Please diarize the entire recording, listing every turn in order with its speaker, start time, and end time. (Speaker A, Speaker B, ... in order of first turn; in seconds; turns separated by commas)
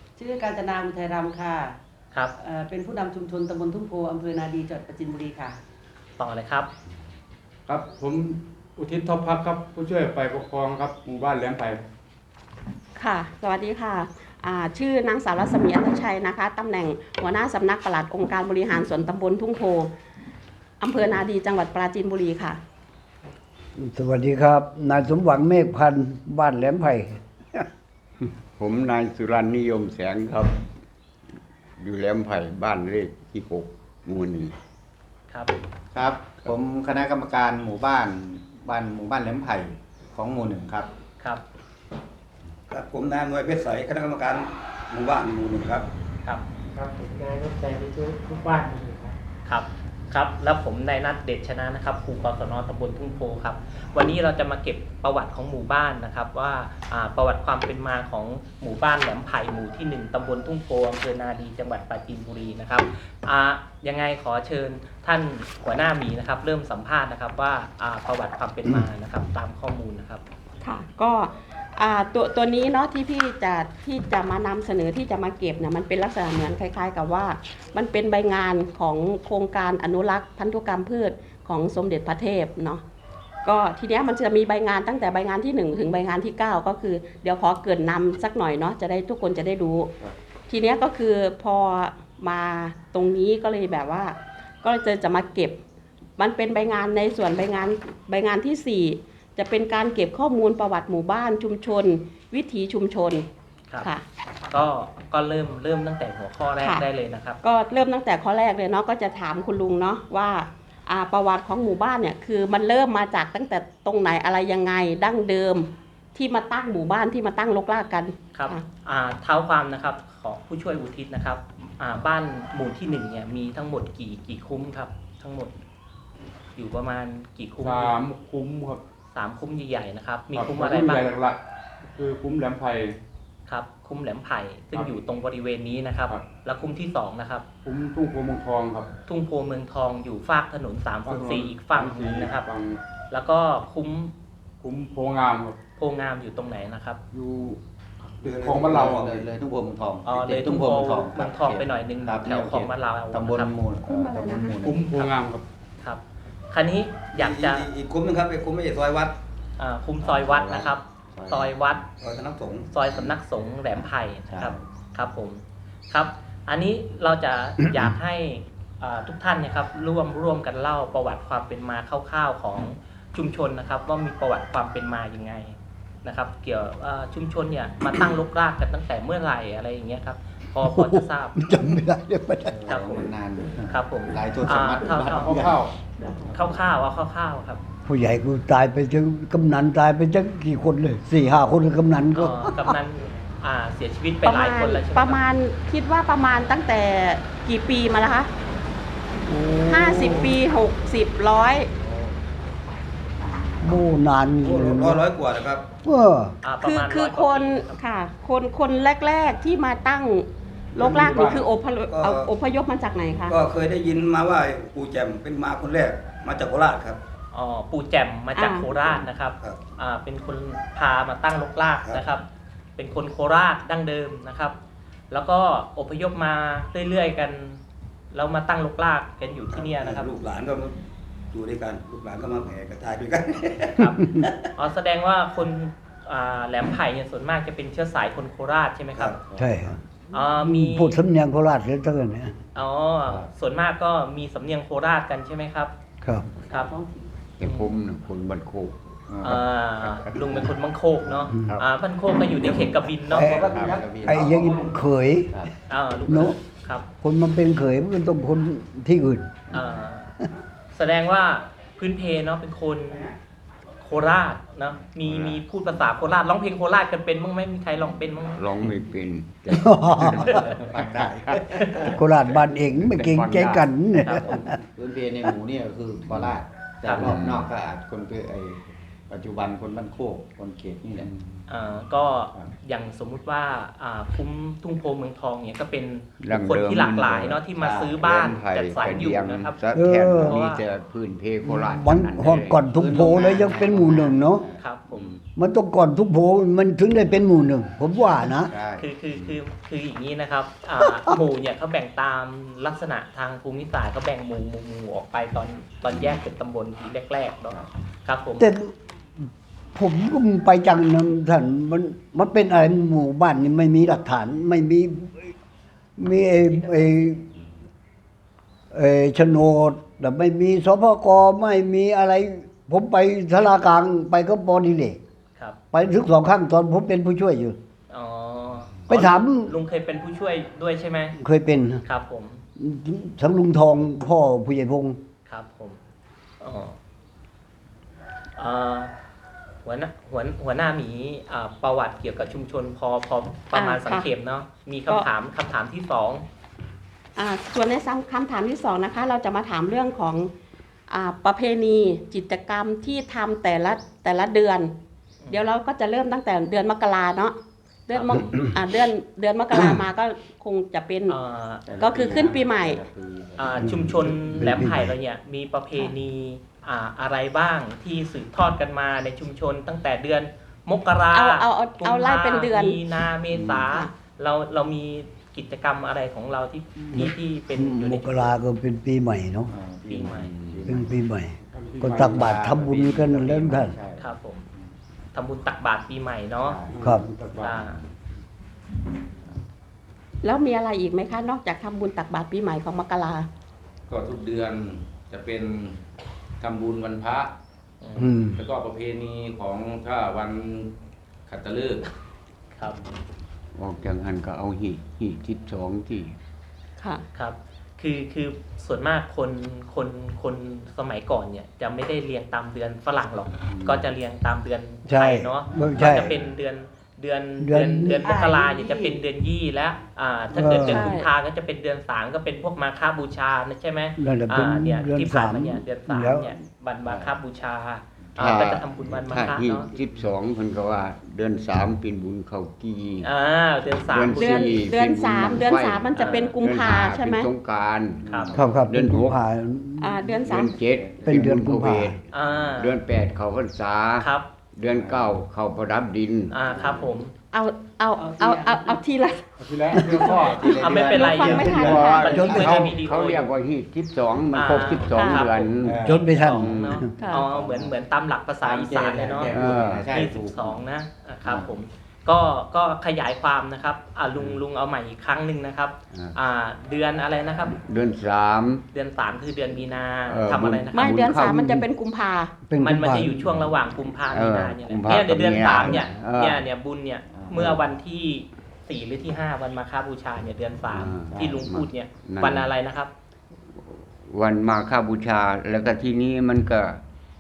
Speaker A: 0.2-1.8, Speaker A: 2.4-5.6, Speaker B: 6.2-6.7, Speaker C: 7.7-11.8, Speaker D: 13.0-19.9, Speaker D: 20.8-22.6, Speaker E: 23.8-27.7, Speaker F: 28.6-30.6, Speaker F: 31.8-34.5, Speaker G: 35.9-40.9, Speaker H: 42.7-45.9, Speaker I: 46.8-49.1, Speaker B: 49.5-70.2, Speaker D: 70.6-82.8, Speaker D: 83.4-89.9, Speaker D: 90.5-95.6, Speaker D: 96.2-103.2, Speaker B: 104.5-107.4, Speaker D: 106.6-106.8, Speaker D: 107.4-118.6, Speaker B: 118.3-125.5, Speaker B: 126.5-127.9, Speaker C: 127.6-128.8, Speaker B: 129.1-131.1, Speaker C: 130.3-131.4, Speaker C: 131.9-133.0, Speaker B: 133.5-137.4, Speaker C: 137.6-138.9, Speaker B: 139.1-142.4, Speaker C: 141.1-142.8, Speaker B: 143.1-144.1, Speaker C: 144.6-145.6, Speaker B: 145.8-147.0, Speaker C: 147.1-147.6, Speaker H: 148.2-149.1, Speaker C: 148.2-149.1, Speaker G: 148.3-154.8, Speaker B: 150.0-153.6, Speaker D: 153.8-154.6, Speaker C: 154.6-155.5, Speaker B: 155.8-157.7, Speaker H: 157.1-159.2, Speaker B: 159.6-161.8, Speaker G: 160.0-161.8, Speaker H: 162.0-162.8, Speaker B: 162.7-181.4, Speaker G: 163.7-164.6, Speaker E: 180.6-182.7, Speaker G: 182.4-185.6, Speaker B: 182.7-183.1, Speaker B: 183.7-185.3, Speaker C: 185.1-185.7, Speaker G: 186.2-186.6, Speaker B: 186.3-187.6, Speaker E: 187.8-192.8, Speaker B: 192.1-195.2, Speaker D: 194.2-198.3, Speaker E: 199.2-200.4, Speaker D: 199.7-201.7, Speaker E: 203.6-205.0, Speaker H: 204.4-205.7, Speaker E: 205.8-206.4, Speaker B: 206.4-207.8, Speaker D: 206.6-213.4, Speaker C: 210.8-211.3, Speaker H: 211.4-212.3, Speaker H: 213.3-217.0, Speaker B: 217.3-222.2, Speaker D: 218.3-218.7, Speaker H: 218.7-219.6, Speaker B: 222.8-224.6, Speaker B: 225.1-227.6, Speaker B: 228.1-230.1, Speaker H: 229.5-234.4, Speaker B: 233.8-239.1, Speaker H: 238.9-239.2, Speaker G: 239.2-239.7, Speaker E: 239.4-239.8, Speaker B: 240.1-241.0, Speaker E: 240.3-242.3, Speaker B: 242.5-245.7, Speaker E: 246.0-246.3, Speaker B: 246.4-246.7, Speaker A: 246.5-247.2, Speaker F: 247.4-250.2, Speaker B: 247.4-247.7, Speaker G: 249.1-249.4, Speaker B: 249.2-253.5, Speaker E: 253.1-255.5, Speaker G: 253.1-254.6, Speaker F: 253.3-253.8, Speaker B: 255.7-256.8, Speaker E: 256.1-256.4, Speaker E: 257.0-259.6, Speaker B: 259.5-260.1, Speaker B: 260.7-263.1, Speaker B: 263.8-268.4, Speaker F: 265.0-265.4, Speaker F: 268.3-271.6, Speaker E: 269.5-270.5, Speaker B: 270.2-270.6, Speaker G: 270.3-272.0, Speaker B: 271.5-271.8, Speaker E: 271.8-274.6, Speaker F: 272.9-273.7, Speaker B: 273.9-274.3, Speaker G: 274.2-281.1, Speaker B: 276.9-277.1, Speaker F: 276.9-277.5, Speaker B: 281.5-289.6, Speaker F: 286.2-292.7, Speaker G: 287.5-288.0, Speaker E: 289.7-290.4, Speaker B: 290.2-290.6, Speaker E: 291.4-294.4, Speaker G: 292.7-295.1, Speaker B: 294.6-295.1, Speaker E: 295.4-298.5, Speaker G: 298.4-298.9, Speaker B: 298.7-308.5, Speaker E: 308.4-308.7, Speaker E: 309.7-315.3, Speaker E: 316.0-317.3, Speaker E: 318.7-325.0, Speaker E: 325.7-327.6, Speaker B: 327.9-331.2, Speaker E: 328.9-329.5, Speaker E: 331.2-331.8, Speaker B: 331.8-332.4, Speaker E: 332.6-335.0, Speaker B: 335.3-335.8, Speaker B: 336.4-336.8, Speaker B: 338.4-338.9, Speaker B: 339.6-346.2, Speaker D: 343.5-344.1, Speaker D: 347.1-350.3, Speaker D: 350.9-354.7, Speaker D: 355.3-361.1, Speaker B: 357.9-358.5, Speaker B: 361.1-361.7, Speaker G: 361.6-363.8, Speaker D: 361.8-362.8, Speaker B: 363.4-378.3, Speaker E: 363.6-364.9, Speaker D: 371.1-372.8, Speaker D: 373.6-373.9, Speaker E: 376.9-379.5, Speaker G: 379.5-380.9, Speaker B: 379.9-380.3, Speaker E: 380.6-383.8, Speaker C: 381.5-382.2, Speaker G: 381.8-384.1, Speaker B: 384.0-384.5, Speaker B: 385.1-386.6, Speaker G: 386.4-387.8, Speaker C: 386.7-387.4, Speaker E: 386.8-387.1, Speaker B: 387.4-387.8, Speaker D: 390.2-393.3, Speaker J: 393.9-395.8, Speaker J: 396.4-397.3, Speaker B: 397.8-398.1, Speaker E: 398.0-398.4, Speaker J: 398.4-400.7, Speaker J: 401.3-401.8, Speaker F: 403.5-406.1, Speaker D: 406.8-407.0, Speaker B: 407.1-429.7, Speaker F: 413.6-413.9, Speaker E: 414.9-416.2, Speaker E: 417.4-418.1, Speaker A: 418.0-419.0, Speaker E: 420.3-420.9, Speaker D: 420.6-421.1, Speaker E: 424.0-426.3, Speaker G: 426.8-427.1, Speaker F: 428.2-433.1, Speaker G: 428.8-429.2, Speaker B: 433.0-434.6, Speaker F: 433.8-439.2, Speaker D: 434.1-437.3, Speaker B: 435.9-436.3, Speaker G: 438.0-438.5, Speaker B: 438.1-438.3, Speaker E: 438.3-440.2, Speaker D: 439.8-440.6, Speaker F: 440.2-442.0, Speaker G: 440.6-441.1, Speaker E: 441.0-442.0, Speaker B: 442.1-442.7, Speaker F: 442.6-446.4, Speaker B: 444.0-444.3, Speaker G: 444.7-445.2, Speaker B: 446.3-447.1, Speaker G: 446.4-446.9, Speaker D: 447.3-449.2, Speaker A: 447.9-448.8, Speaker C: 449.4-450.3, Speaker D: 449.8-452.4, Speaker G: 449.8-452.3, Speaker B: 450.4-453.3, Speaker F: 451.0-456.9, Speaker E: 451.2-452.8, Speaker B: 454.3-459.3, Speaker D: 454.9-455.3, Speaker G: 455.6-456.3, Speaker E: 455.8-456.9, Speaker D: 457.0-457.3, Speaker G: 457.1-457.7, Speaker G: 458.4-460.6, Speaker F: 459.3-459.9, Speaker B: 459.9-467.6, Speaker G: 461.2-461.5, Speaker F: 465.9-466.2, Speaker F: 467.5-468.6, Speaker B: 468.7-471.0, Speaker F: 470.1-471.4, Speaker D: 470.7-472.3, Speaker E: 471.2-471.6, Speaker E: 472.4-473.2, Speaker B: 472.6-482.9, Speaker F: 474.1-476.4, Speaker G: 477.1-477.5, Speaker F: 480.7-482.5, Speaker G: 481.1-481.4, Speaker F: 483.6-486.8